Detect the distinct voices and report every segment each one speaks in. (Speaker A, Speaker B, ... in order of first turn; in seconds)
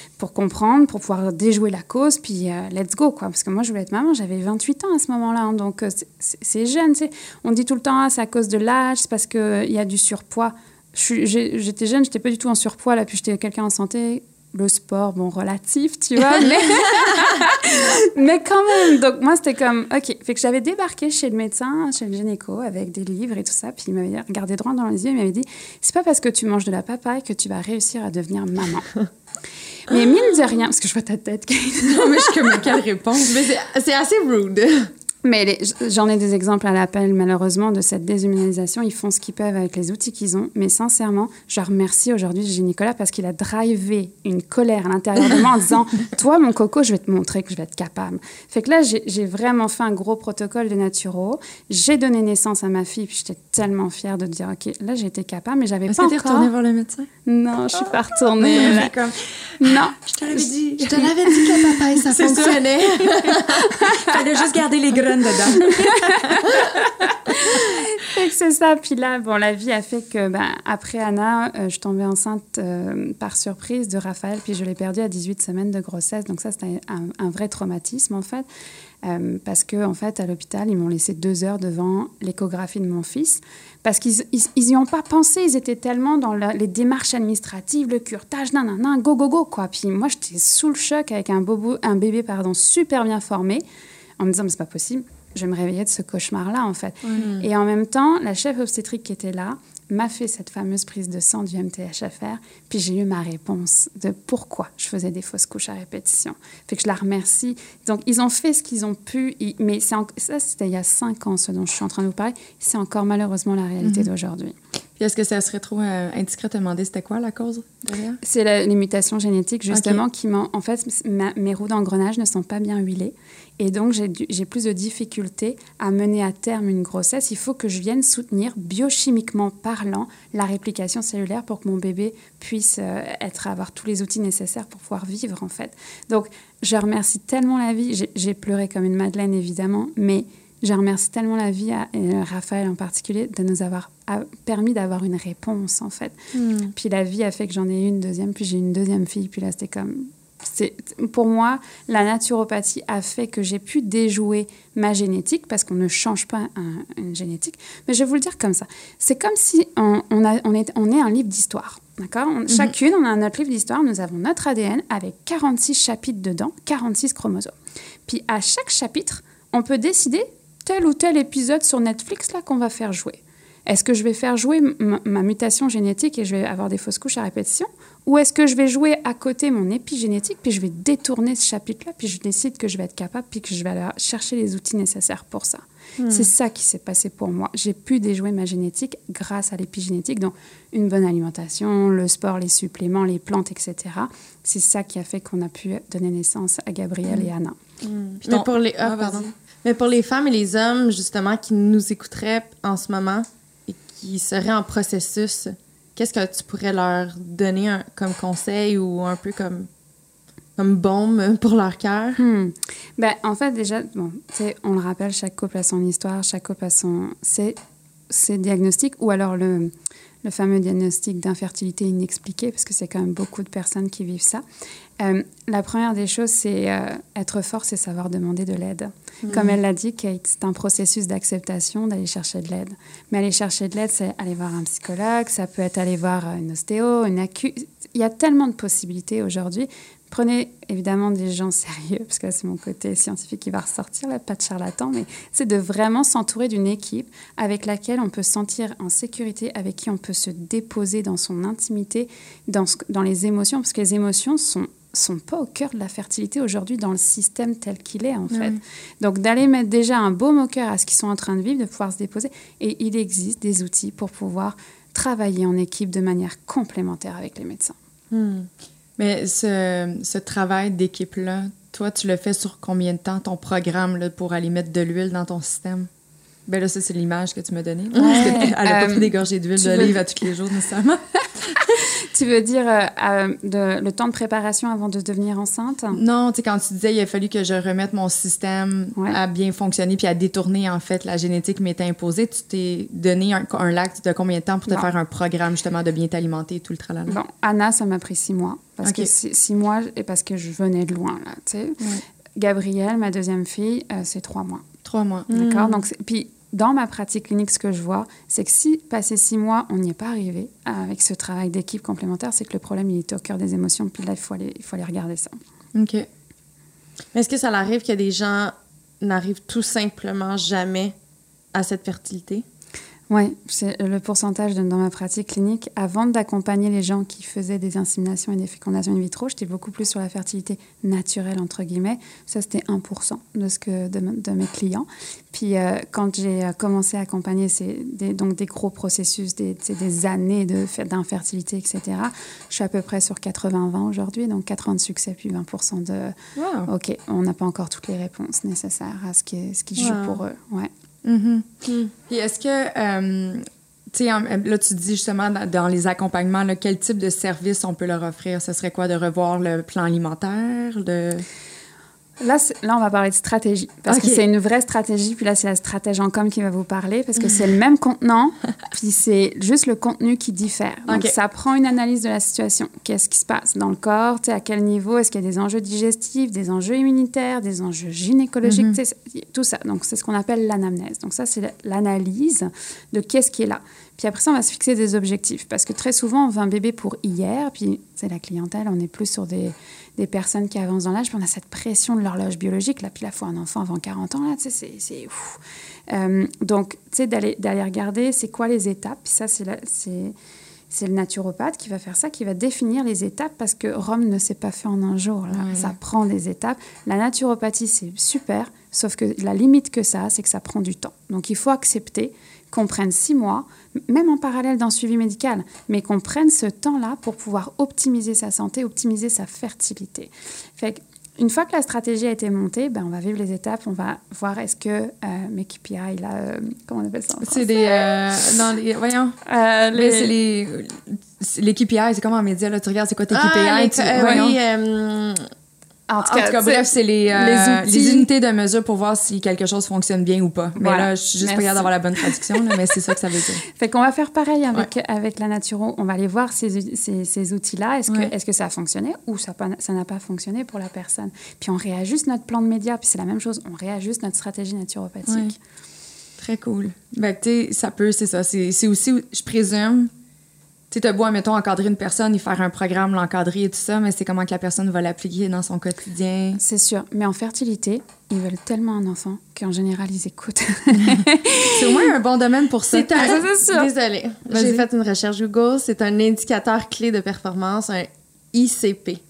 Speaker A: 0.2-28.9, 29.9-32.8, 35.2-56.5, 57.3-58.9, 59.6-60.5, 63.7-64.2, 65.6-78.5, 79.0-93.6, 94.2-114.6, 118.2-146.2, 146.7-167.6, 168.1-197.6, 212.2-217.6, 218.1-219.7, 220.2-224.4, 225.0-267.8, 278.0-280.0, 281.8-286.0, 297.1-304.6, 305.3-315.4, 323.1-346.1, 346.7-350.7, 362.2-400.1, 400.7-428.1, 429.3-430.1, 434.0-434.3, 435.9-438.1, 440.6-455.4, 466.4-471.9, 472.9-473.7
Speaker B: 17.1-17.3, 31.9-33.4, 55.9-57.1, 58.4-67.7, 113.8-114.1, 115.0-118.2, 119.7-120.0, 198.2-199.3, 258.3-258.6, 269.0-275.9, 276.5-281.8, 285.9-297.2, 298.8-299.1, 304.9-305.3, 315.8-316.1, 346.4-346.7, 351.0-351.5, 352.1-361.3, 363.9-364.2, 370.9-371.1, 378.4-378.8, 405.3-405.8, 427.2-429.2, 429.7-434.4, 436.0-443.4, 456.2-459.9, 460.7-466.4, 470.8-473.2, 474.3-474.6
Speaker C: 33.2-34.9, 60.8-63.7, 97.2-97.5, 146.3-146.7, 186.0-186.3, 197.8-209.7, 210.6-212.2, 229.2-229.6, 268.1-268.5, 278.0-278.4, 305.3-305.8, 317.1-320.9, 321.5-322.5, 349.8-350.2, 351.6-351.9, 433.1-435.2, 472.7-479.0